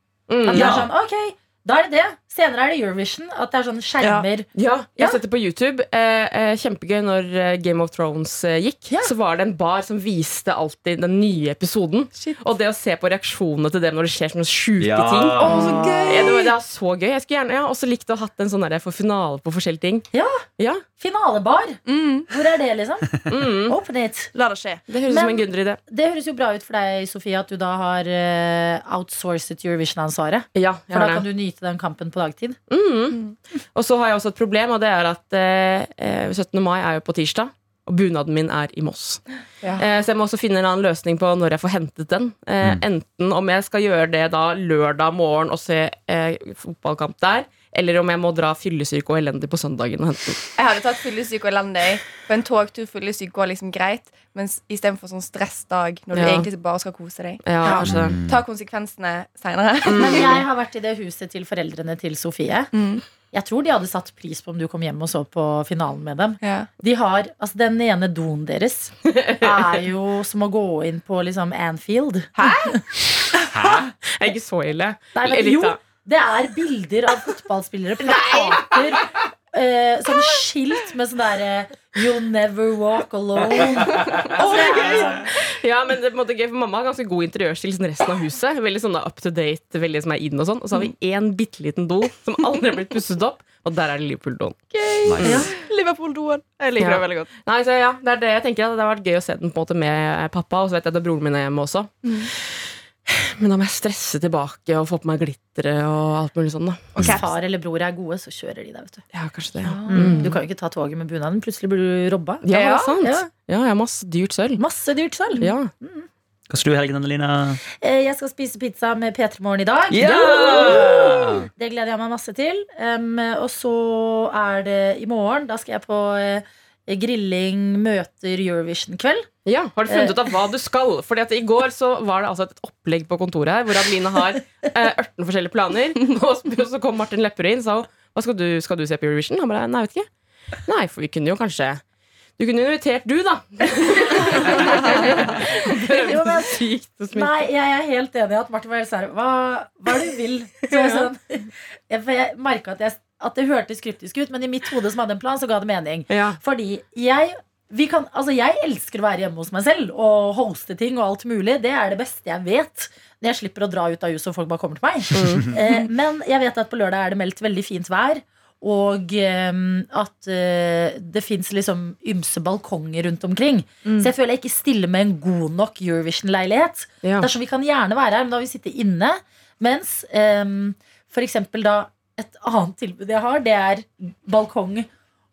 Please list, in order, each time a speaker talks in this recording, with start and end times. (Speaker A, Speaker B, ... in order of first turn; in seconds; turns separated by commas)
Speaker A: 0.3-0.7, Speaker B: 0.5-5.2, Speaker C: 0.6-0.9, Speaker D: 4.0-4.3, Speaker A: 4.5-15.5, Speaker C: 14.8-15.7, Speaker D: 15.4-16.5, Speaker B: 15.4-16.2, Speaker A: 16.1-20.1, Speaker B: 20.1-20.4, Speaker A: 20.6-20.8, Speaker B: 21.0-24.3, Speaker E: 21.9-22.3, Speaker A: 23.3-23.8, Speaker D: 24.3-24.9, Speaker A: 24.9-25.8, Speaker B: 25.1-32.6, Speaker A: 30.6-31.2, Speaker A: 32.7-33.2, Speaker A: 33.7-39.2, Speaker A: 39.8-50.4, Speaker E: 50.6-60.4, Speaker A: 56.1-56.5, Speaker A: 57.4-58.2, Speaker B: 57.6-57.9, Speaker C: 57.8-58.4, Speaker A: 59.9-60.4, Speaker B: 60.0-62.7, Speaker E: 62.7-63.0, Speaker B: 63.3-72.8, Speaker E: 66.4-66.7, Speaker A: 69.1-69.6, Speaker D: 72.4-72.7, Speaker C: 73.5-73.9, Speaker A: 74.0-75.8, Speaker B: 75.1-85.2, Speaker A: 78.1-78.8, Speaker D: 84.3-85.2, Speaker A: 85.3-95.5, Speaker D: 94.9-97.3, Speaker C: 95.0-95.5, Speaker B: 95.2-95.5, Speaker A: 96.8-102.3, Speaker A: 103.1-106.9, Speaker C: 107.0-107.2, Speaker D: 107.0-107.2, Speaker B: 107.0-109.0, Speaker A: 109.1-110.4, Speaker D: 109.8-110.2, Speaker B: 109.8-112.4, Speaker A: 112.4-114.6, Speaker B: 113.0-113.3, Speaker B: 114.6-116.1, Speaker A: 115.4-115.7, Speaker C: 116.5-117.6, Speaker B: 117.8-129.3, Speaker C: 119.9-121.5, Speaker A: 120.0-121.2, Speaker A: 129.4-140.1, Speaker B: 129.9-130.3, Speaker A: 140.7-141.8, Speaker A: 142.4-147.5, Speaker B: 144.5-145.3, Speaker B: 145.9-184.9, Speaker A: 156.1-156.4, Speaker A: 165.1-165.6, Speaker D: 173.8-174.1, Speaker A: 177.0-177.3